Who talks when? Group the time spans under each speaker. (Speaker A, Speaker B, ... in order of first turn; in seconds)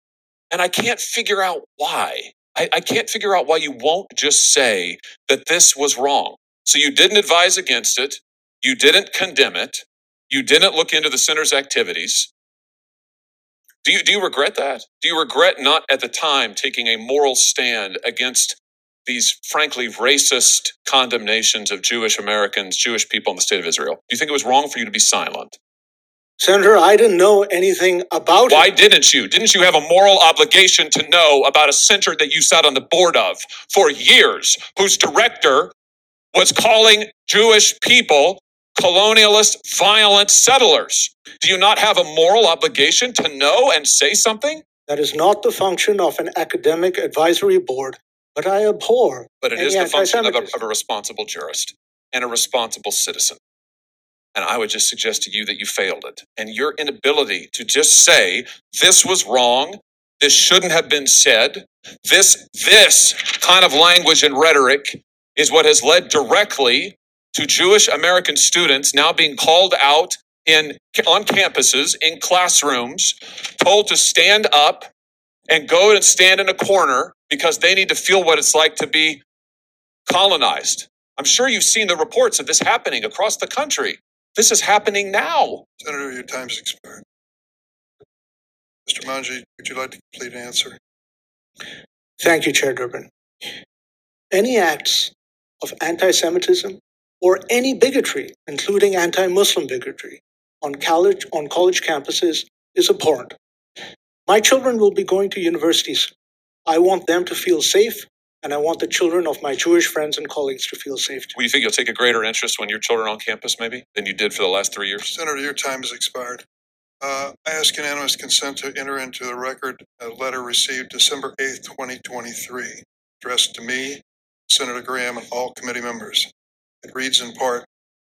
Speaker A: 0.5-12.3, 13.8-25.6, 28.5-35.7, 36.3-44.6, 49.4-53.4, 54.4-74.9, 75.5-79.2, 80.1-85.6, 111.3-115.1
Speaker B: 26.4-28.7, 44.9-50.6, 92.2-93.1, 94.3-103.4, 104.3-106.1, 106.7-111.3
Speaker C: 85.8-87.0, 88.9-90.8, 115.0-116.4, 117.0-126.3, 126.8-127.7